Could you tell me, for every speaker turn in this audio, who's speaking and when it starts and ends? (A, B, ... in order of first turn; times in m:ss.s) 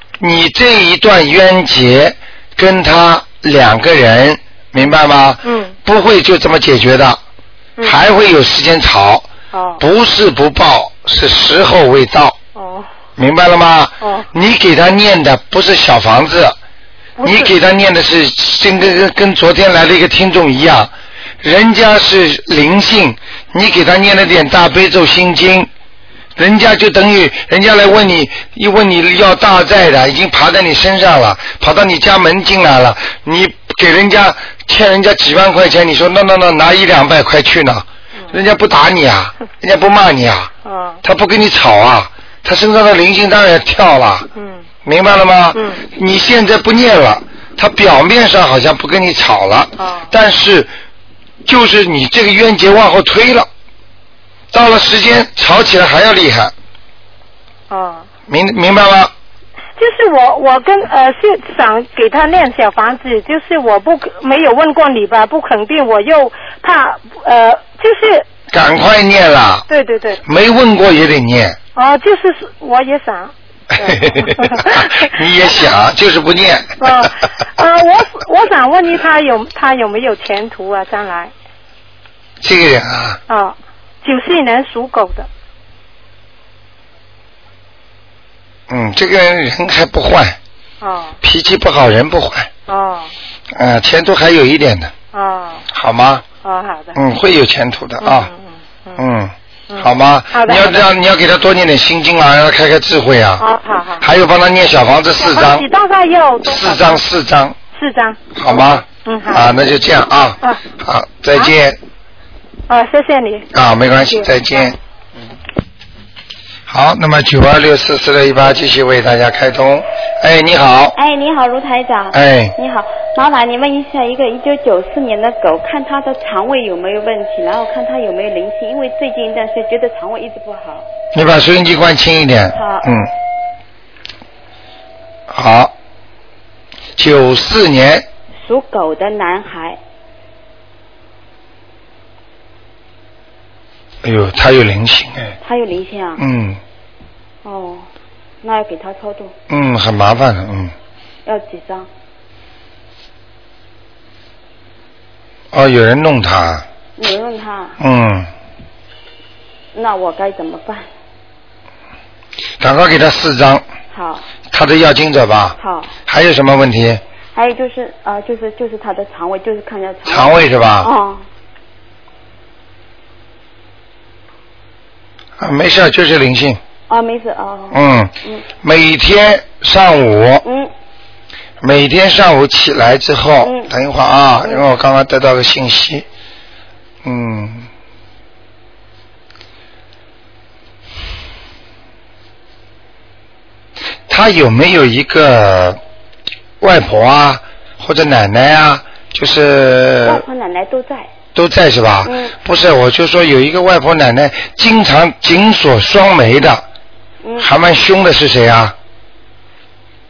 0:00.2-0:07.2 A
0:05.4-0:05.7 B
0:07.8-0:12.4 A
0:09.5-0:09.8 B
0:12.5-0:12.9 B
0:13.2-0:16.6 A
0:14.0-0:14.3 B
0:17.2-0:17.5 B
0:17.2-0:25.7 A
0:26.4-0:40.5 A
0:40.6-0:41.0 B
0:41.0-0:44.3 A
0:44.8-0:50.7 A
0:45.5-0:45.8 B
0:49.8-0:50.1 B
0:51.4-0:53.5 A
0:54.5-0:56.5 A
0:57.7-0:58.1 B
0:58.3-0:59.1 A
0:59.8-1:08.3 B
1:08.5-1:09.6 A
1:09.7-1:10.2 B
1:10.2-1:11.6 A
1:11.7-1:15.6 B
1:13.8-1:16.9 A
1:16.8-1:21.3 B
1:22.4-1:23.2 A
1:23.3-1:25.3 B
1:28.7-1:30.4 A
1:30.8-1:31.2 B
1:31.2-1:32.5 A
1:32.7-1:33.1 B
1:33.5-1:34.9 A
1:35.1-1:35.6 B
1:35.7-1:36.2 A
1:36.4-1:37.0 B
1:36.9-1:38.3 A
1:38.0-1:39.0 B
1:39.0-1:43.4 A
1:39.7-1:40.8 B
1:43.4-1:44.0 B
1:44.0-1:45.6 A
1:45.2-1:47.0 B
1:46.4-1:47.6 A
1:47.7-1:49.6 B
1:48.3-1:51.8 A
1:52.7-1:53.5 B
1:53.5-1:54.8 A
1:54.1-1:54.7 B
1:56.7-2:01.0 A
2:01.0-2:10.9 C
2:02.1-2:02.5 A
2:11.1-2:13.1 A
2:12.5-2:13.0 C
2:15.3-2:15.7 A
2:17.0-2:18.0 A
2:18.4-2:19.8 C
2:24.0-2:25.4 A
2:25.4-2:26.2 C
2:26.2-2:26.6 A
2:27.4-2:27.9 C
2:28.4-2:29.3 C
2:29.5-2:30.7 A
2:31.2-2:31.9 C
2:35.5-2:36.6 A
2:37.0-2:37.8 C
2:37.8-2:38.3 A
2:39.7-2:40.9 C
2:42.6-2:43.6 A
2:43.9-2:44.3 C
2:44.5-2:47.0 A
2:45.6-2:45.9 C
2:47.3-2:51.2 C
2:50.1-2:50.9 A
2:55.4-2:56.6 A
2:56.9-2:58.5 C
2:57.7-3:00.4 A
3:00.4-3:00.7 C
3:01.6-3:06.0 A
3:03.4-3:03.7 C
3:07.0-3:07.7 A
3:14.1-3:15.8 A
3:16.6-3:20.2 A
3:20.0-3:21.1 C
3:21.3-3:26.6 A
3:22.0-3:22.3 C
3:27.2-3:27.5 C
3:27.4-3:28.7 A